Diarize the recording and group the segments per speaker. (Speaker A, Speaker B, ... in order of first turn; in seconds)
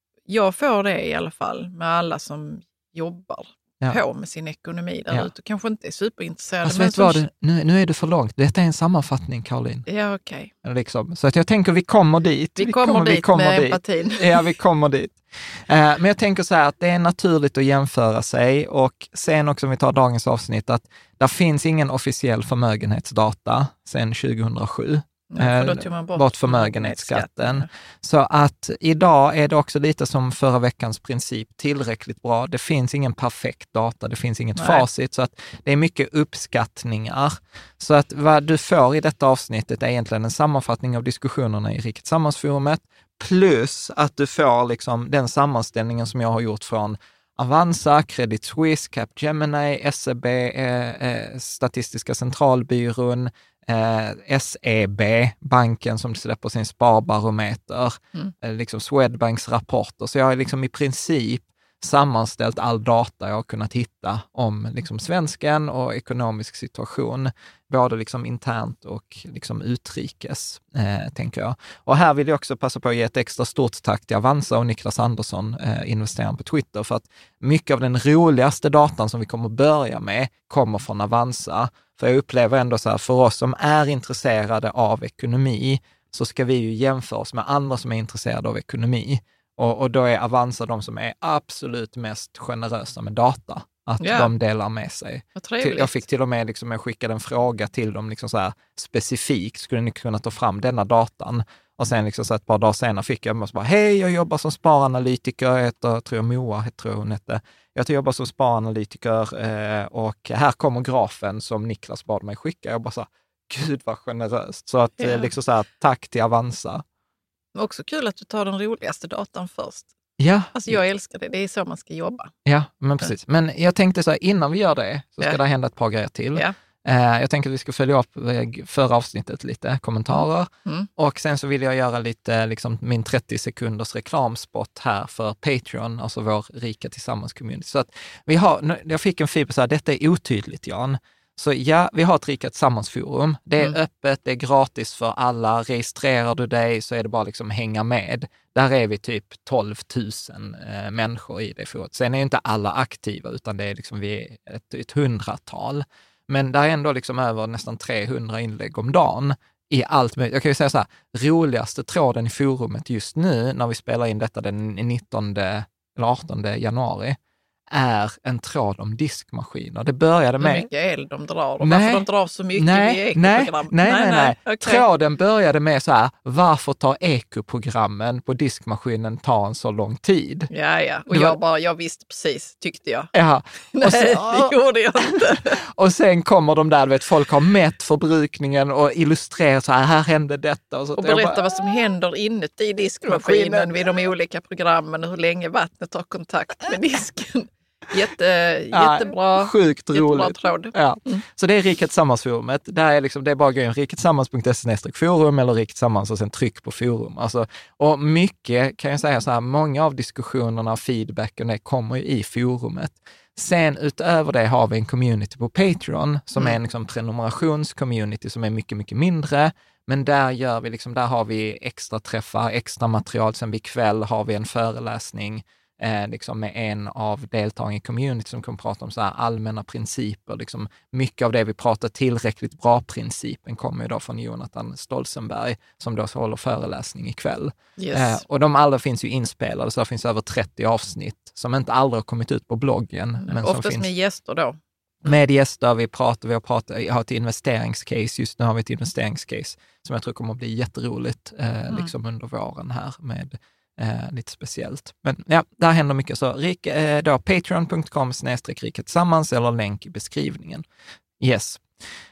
Speaker A: 0.3-7.2, 9.9-10.5, 12.6-14.4, 25.3-27.7, 34.6-34.9, 94.0-94.3, 95.4-96.0, 115.0-115.3, 117.5-119.9, 120.5-122.3, 130.1-130.9, 170.4-174.8, 180.5-183.1, 183.7-185.6, 191.0-201.2, 237.8-238.2, 243.2-244.6
Speaker B: 6.6-9.9, 10.6-116.8, 120.2-120.8, 122.5-167.2, 167.7-170.7, 171.6-180.5, 181.1-181.4, 183.1-185.0, 185.6-191.5, 193.1-194.0, 198.7-243.9, 245.1-260.6, 261.2-261.6